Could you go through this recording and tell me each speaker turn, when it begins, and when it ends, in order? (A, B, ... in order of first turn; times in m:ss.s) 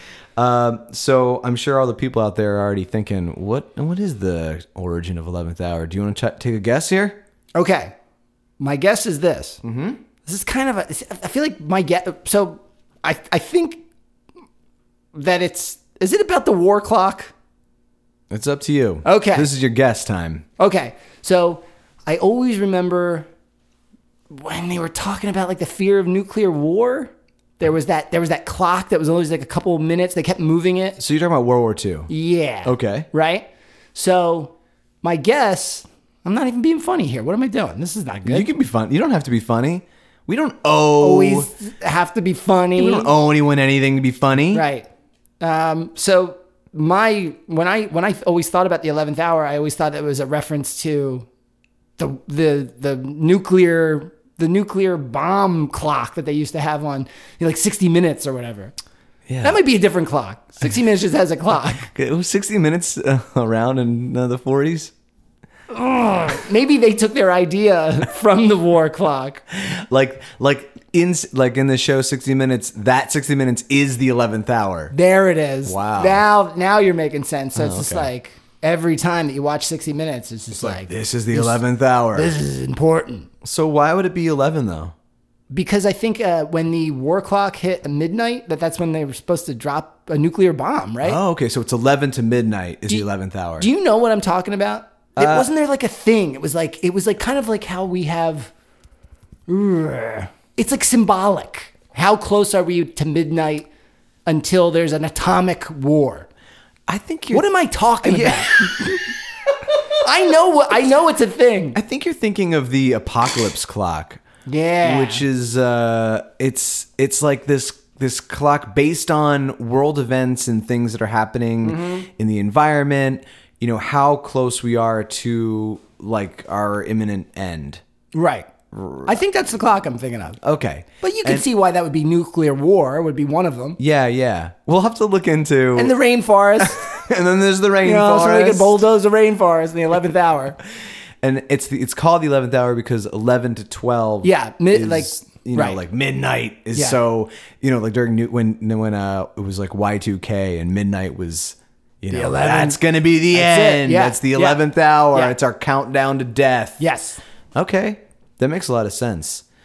0:00.4-0:07.2 A
0:07.5-0:07.9 B
0:08.6-0:09.6 B
0:09.6-0:10.0 A
0:10.2-0:13.8 B
0:15.1-0:17.3 B
0:18.3-0:20.4 A
0:19.0-0:19.5 B
0:20.6-0:23.3 B
0:24.3-0:31.0 B
0:31.0-0:32.1 A
0:32.1-0:38.5 B
0:32.6-0:33.1 A
0:38.2-0:41.5 A
0:41.0-0:43.1 B
0:42.8-0:44.6 A
0:44.5-0:44.9 B
0:45.4-0:51.3 B
0:52.0-0:58.7 B
0:59.3-0:59.6 A
0:59.4-1:01.9 B
1:01.9-1:04.9 A
1:05.7-1:09.4 B
1:09.5-1:14.9 A
1:14.9-1:21.6 B
1:15.6-1:16.2 A
1:17.5-1:18.1 A
1:20.6-1:22.3 A
1:22.1-1:23.3 B
1:23.4-1:24.9 A
1:25.5-1:31.2 B
1:31.0-1:33.7 A
1:33.6-1:38.5 B
1:35.2-1:35.5 A
1:39.5-1:43.7 B
1:44.2-1:46.3 B
1:46.9-1:47.5 A
1:47.3-1:49.1 B
1:48.0-1:48.9 A
1:49.9-1:51.8 B
1:51.7-1:54.2 A
1:54.4-1:55.2 B
1:54.8-2:07.8 A
2:01.6-2:02.1 B
2:08.1-2:08.5 B
2:08.7-2:09.2 A
2:09.0-2:10.4 B
2:10.4-2:11.4 A
2:11.0-2:13.8 B
2:13.8-2:16.0 A
2:15.8-2:16.8 B
2:16.6-2:18.8 A
2:17.8-2:20.6 B
2:21.2-2:36.8 A
2:24.2-2:25.8 B
2:32.1-2:32.8 B
2:33.3-2:34.6 B
2:36.8-2:37.2 B
2:37.5-2:39.4 A